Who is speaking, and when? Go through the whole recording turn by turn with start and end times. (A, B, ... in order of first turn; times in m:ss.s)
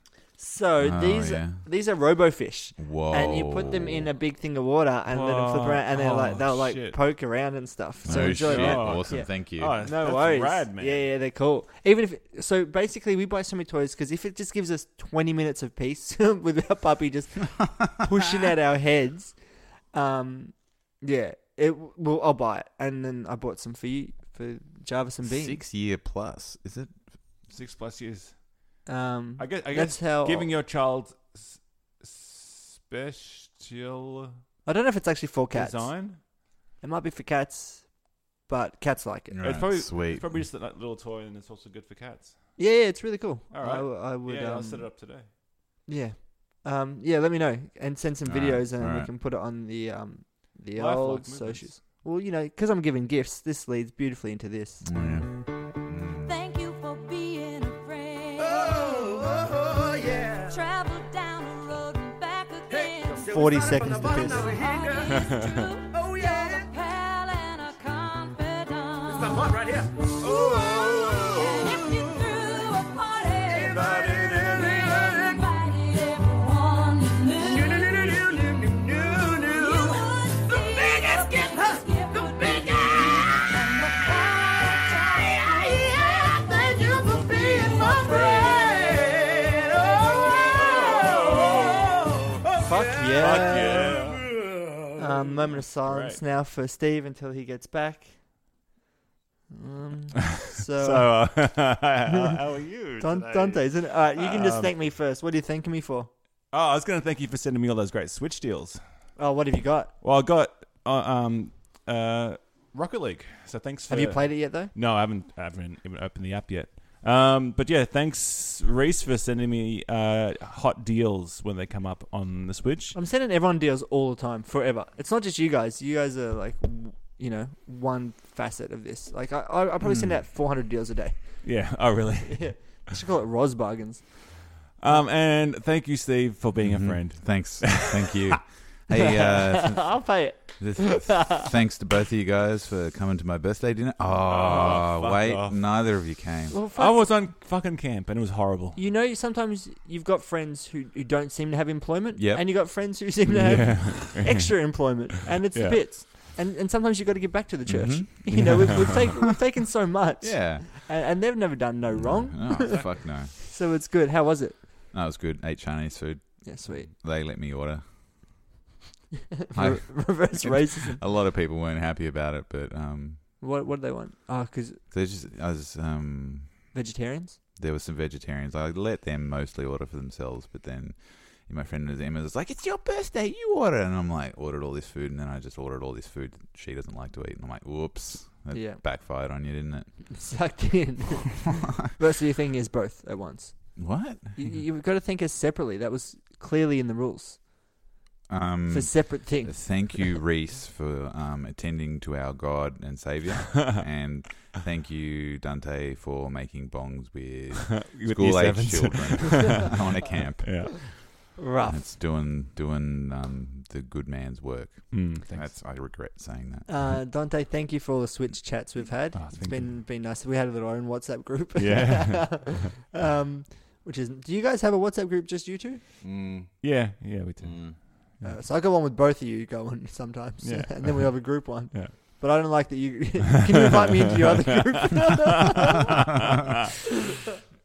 0:00.4-0:25.6 A
0:00.8-0:01.6 B
0:02.8-0:04.1 B
0:05.1-0:07.0 C
0:08.0-0:09.8 B
0:08.0-0:11.1 C
0:25.2-0:27.0 B
0:27.4-0:28.8 C
0:28.8-0:30.5 A
0:29.4-0:34.4 C
0:34.6-0:36.2 A
0:35.5-0:36.2 C
0:36.8-0:39.5 A
0:39.3-0:40.4 B
0:39.4-0:42.6 C
0:42.6-0:44.9 A
0:43.5-0:45.3 C
0:45.9-0:55.1 A
0:48.2-0:49.1 B
0:50.7-0:51.8 C
0:54.8-0:56.3 B
0:56.2-0:59.6 D
0:58.4-1:00.5 E
1:00.5-1:18.3 D
1:02.7-1:06.6 E
1:03.3-1:04.5 A
1:05.1-1:05.5 C
1:09.1-1:12.3 E
1:13.5-1:15.4 E
1:17.4-1:23.5 E
1:18.9-1:29.0 D
1:25.2-1:34.5 E
1:30.6-1:31.8 D
1:31.1-1:31.5 C
1:32.6-1:33.9 A
1:33.2-1:34.3 C
1:35.0-1:38.2 A
1:35.8-1:36.2 C
1:39.5-1:41.6 A
1:40.7-1:44.8 C
1:43.0-1:46.1 A
1:46.5-1:48.8 C
1:49.2-1:49.9 A
1:50.0-2:03.0 C
1:53.9-1:54.7 A
2:02.9-2:11.5 A
2:09.8-2:10.2 B
2:11.4-2:12.9 C
2:12.3-2:15.1 A
2:14.8-2:18.4 C
2:16.6-2:26.6 B
2:19.2-2:21.4 A
2:24.2-2:25.6 C
2:26.5-2:27.1 A
2:26.7-2:28.8 C
2:28.8-2:44.6 A
2:32.1-2:32.8 B
2:33.3-2:34.5 C
2:35.5-2:36.0 C
2:37.7-2:39.0 B
2:38.3-2:38.7 C
2:40.2-2:40.9 B
2:41.9-2:43.3 B
2:44.9-2:47.8 B
2:46.4-2:46.9 A
2:49.5-2:51.0 A
2:49.5-2:53.2 B
2:53.4-2:54.8 A
2:54.9-2:56.7 B
2:56.7-2:57.4 A
2:57.6-3:10.1 B
3:08.5-3:08.8 A
3:10.1-3:17.4 A
3:13.8-3:14.4 B
3:18.3-3:31.0 B
3:18.7-3:20.0 A
3:27.7-3:29.8 C
3:30.4-3:30.7 C
3:31.4-3:31.8 A
3:31.6-3:37.0 B
3:34.9-3:35.6 C
3:36.6-3:45.8 A
3:39.1-3:39.8 C
3:41.6-3:42.6 C
3:46.0-3:46.7 B
3:46.6-3:48.4 C
3:47.4-3:47.8 B
3:48.2-3:55.9 A
3:50.4-3:52.0 C